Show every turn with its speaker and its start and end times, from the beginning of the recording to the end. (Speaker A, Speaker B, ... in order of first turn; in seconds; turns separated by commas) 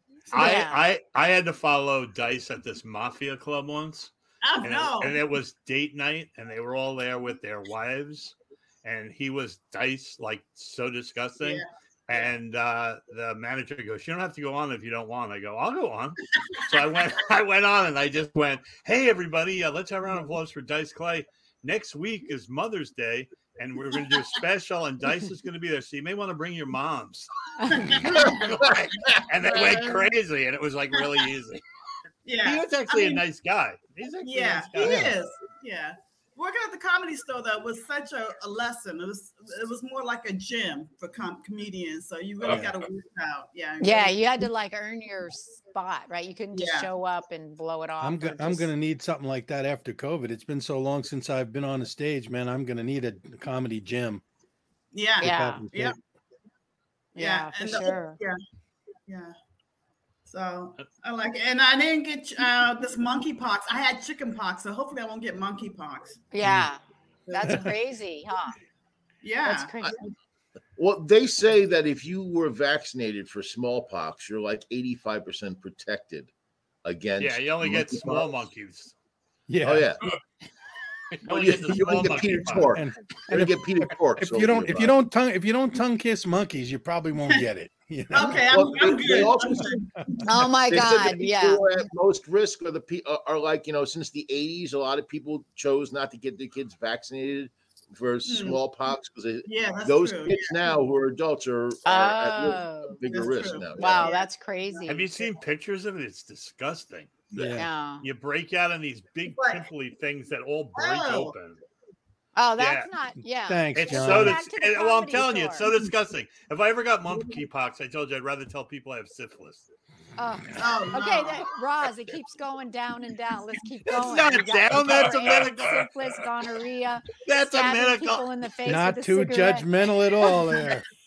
Speaker A: 0.3-31.6, Speaker B: 0.3-0.8, Speaker C: 4.4-5.2, Speaker C: 11.4-12.3, Speaker B: 27.6-27.9, Speaker C: 27.7-28.4, Speaker D: 28.2-28.7, Speaker C: 29.4-30.1, Speaker C: 32.2-33.2, Speaker A: 32.4-35.1, Speaker C: 34.2-44.3, Speaker E: 34.8-35.1, Speaker E: 42.5-42.7, Speaker B: 43.8-48.7, Speaker C: 46.5-46.9, Speaker E: 48.0-54.2, Speaker C: 54.9-56.0, Speaker B: 55.2-55.6, Speaker E: 55.2-56.0, Speaker B: 57.2-58.2, Speaker C: 57.2-58.4, Speaker C: 59.1-59.4, Speaker C: 60.3-66.3, Speaker B: 66.3-68.5, Speaker E: 66.4-66.7, Speaker C: 67.3-67.7, Speaker C: 69.2-69.8, Speaker B: 69.4-70.0, Speaker D: 70.8-76.3, Speaker D: 76.8-78.3, Speaker A: 77.2-78.9, Speaker E: 79.5-79.9, Speaker D: 79.6-80.0, Speaker A: 81.2-82.8, Speaker D: 81.3-84.9, Speaker E: 82.7-88.4, Speaker C: 88.1-90.1, Speaker D: 88.5-89.9, Speaker B: 90.2-91.6, Speaker D: 90.7-104.1, Speaker C: 98.2-98.6, Speaker C: 99.5-100.5, Speaker B: 101.8-103.0, Speaker C: 103.1-104.9, Speaker B: 103.8-105.2, Speaker A: 104.9-107.2, Speaker E: 107.3-107.7, Speaker B: 107.6-108.0, Speaker A: 108.0-111.6, Speaker C: 109.3-109.7, Speaker C: 110.8-111.3, Speaker B: 112.4-115.7, Speaker A: 112.6-112.9, Speaker E: 113.5-114.4, Speaker A: 113.8-119.7, Speaker B: 120.2-129.7, Speaker C: 120.6-121.5, Speaker A: 123.9-125.9, Speaker A: 127.2-128.3, Speaker E: 128.7-130.8